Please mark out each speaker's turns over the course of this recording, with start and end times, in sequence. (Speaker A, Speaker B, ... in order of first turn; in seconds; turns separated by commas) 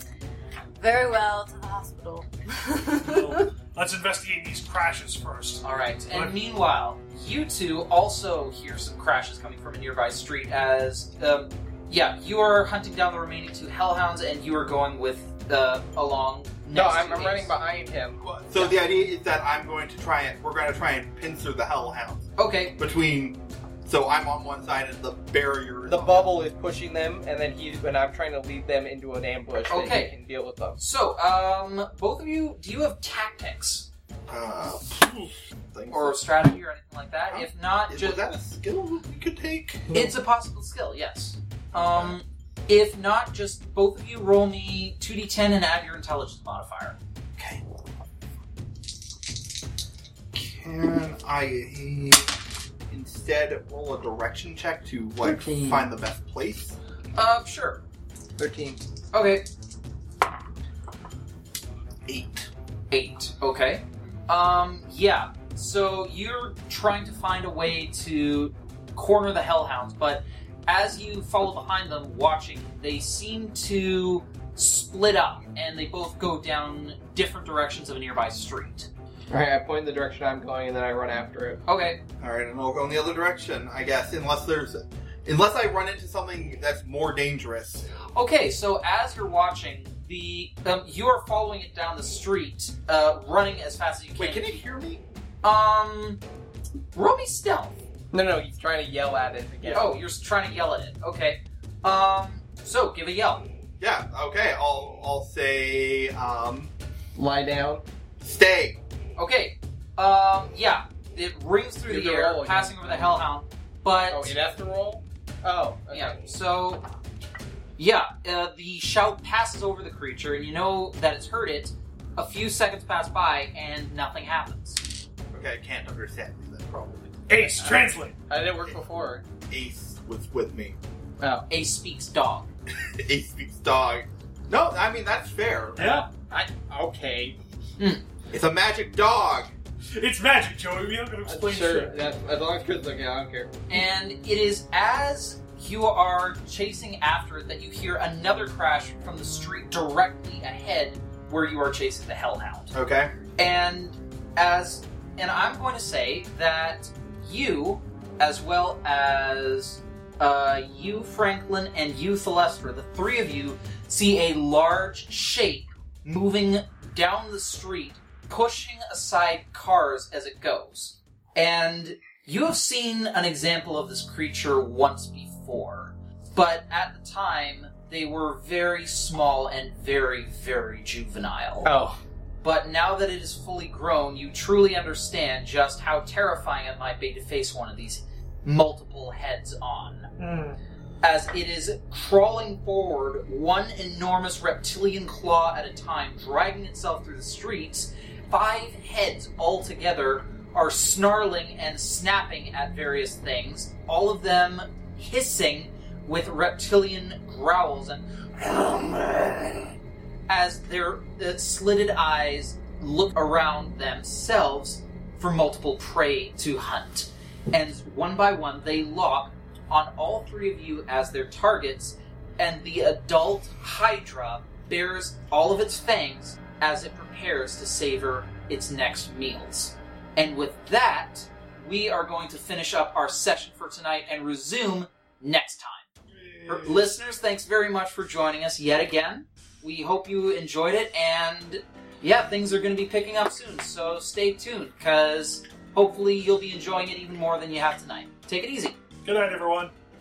Speaker A: 0.8-3.5, Speaker B: 3.0-6.3, Speaker C: 5.6-17.5, Speaker D: 16.7-18.7, Speaker E: 18.2-26.4, Speaker C: 22.4-22.8, Speaker D: 25.9-30.8, Speaker C: 29.7-30.1, Speaker C: 30.8-33.9, Speaker E: 34.3-36.2, Speaker C: 35.9-38.2, Speaker E: 37.3-40.1, Speaker C: 39.9-47.0, Speaker E: 41.7-42.2, Speaker E: 47.4-47.6, Speaker E: 50.3-52.3, Speaker E: 52.9-56.8, Speaker D: 55.2-55.9, Speaker C: 57.1-57.8, Speaker D: 58.4-58.8, Speaker C: 59.1-59.5, Speaker E: 62.1-62.5, Speaker C: 62.9-78.9, Speaker D: 79.3-81.6, Speaker C: 81.7-82.0, Speaker E: 82.2-87.9, Speaker C: 88.1-94.5, Speaker E: 94.2-95.0, Speaker C: 95.4-96.2, Speaker C: 96.9-97.8, Speaker D: 98.1-99.9, Speaker C: 99.6-103.4, Speaker E: 103.8-106.7, Speaker D: 107.2-107.8, Speaker E: 108.2-108.8, Speaker C: 109.2-114.3, Speaker D: 111.9-113.2, Speaker D: 114.1-116.2, Speaker C: 115.9-116.9, Speaker C: 117.8-124.8, Speaker E: 125.3-127.5, Speaker B: 127.3-128.2, Speaker D: 127.6-129.2, Speaker E: 129.5-130.8, Speaker D: 131.2-131.4, Speaker C: 131.5-132.5, Speaker E: 133.0-135.8, Speaker B: 135.8-136.1, Speaker D: 135.8-137.4, Speaker E: 138.3-139.5, Speaker B: 139.9-142.0, Speaker D: 141.2-143.6, Speaker C: 143.7-152.7, Speaker E: 152.7-153.1, Speaker C: 153.4-181.7, Speaker D: 181.6-182.0, Speaker C: 182.4-190.1, Speaker B: 190.2-190.6, Speaker C: 191.0-209.7, Speaker C: 210.3-235.9, Speaker B: 236.2-237.0, Speaker C: 236.5-248.8, Speaker B: 249.0-249.7